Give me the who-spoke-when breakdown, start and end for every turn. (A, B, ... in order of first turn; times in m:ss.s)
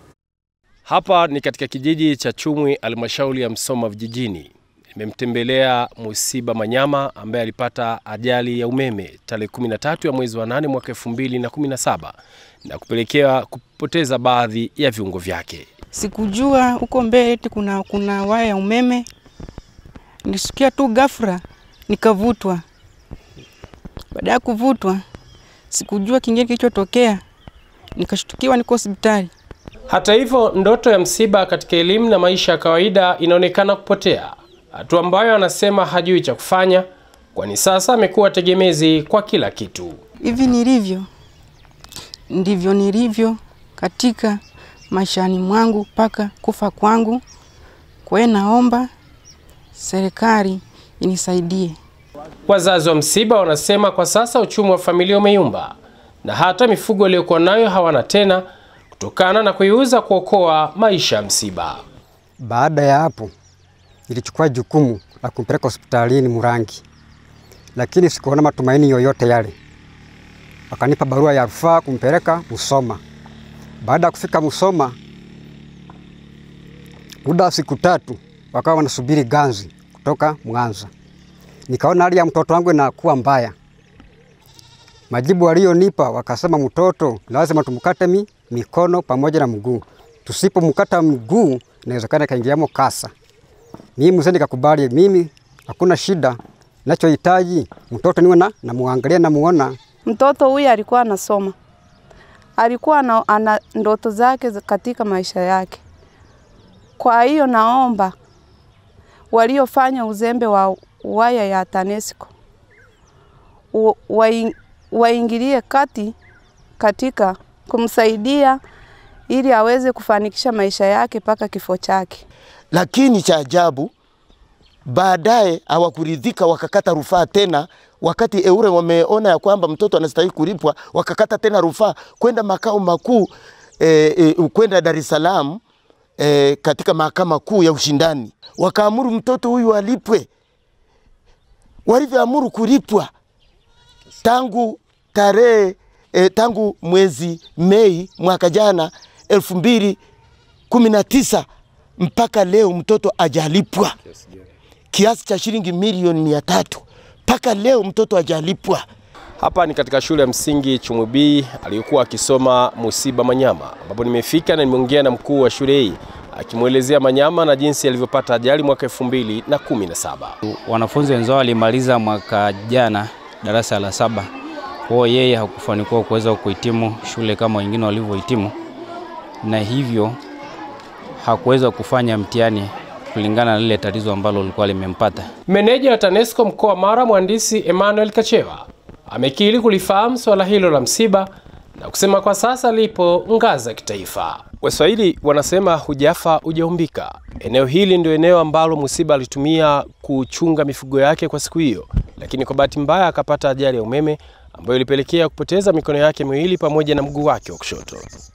0:00.8-0:15.7 A
0:15.9-0:19.1 B
0:20.2-0:22.6 B
0:24.1-0:25.0 B
0:25.7-0:27.2 B
0:27.9-0:29.3 B
0:29.9-0:40.0 A
0:40.2-0:41.1 B
0:42.3-0:47.2 B
0:48.0-0:48.9 B
0:49.8-0:51.8 B
0:52.5-0:58.4 A
0:59.0-1:01.8 A
1:02.4-1:03.3 C
1:04.1-1:06.8 C
1:07.8-1:09.5 C
1:10.7-1:13.0 C
1:13.8-1:15.0 C
1:17.2-1:20.9 C
1:21.7-1:23.5 C
1:25.1-1:33.1 C
1:34.0-1:39.8 C
1:40.0-1:41.5 D
1:42.6-1:45.8 D
1:47.0-1:48.1 D
1:49.3-1:52.3 D
1:53.7-1:56.1 D
1:56.8-1:58.6 D
1:59.3-2:02.2 D
2:02.7-2:03.9 E
2:04.8-2:15.6 E
2:16.2-2:20.3 E
2:21.8-2:23.1 E
2:24.2-2:30.0 E
2:30.7-2:31.4 E
2:32.0-2:33.9 E
2:34.9-2:38.8 E
2:39.4-2:50.4 A
2:50.4-2:54.3 F
2:54.9-2:58.5 F
2:59.4-3:00.2 F
3:01.2-3:05.3 F
3:05.5-3:28.0 A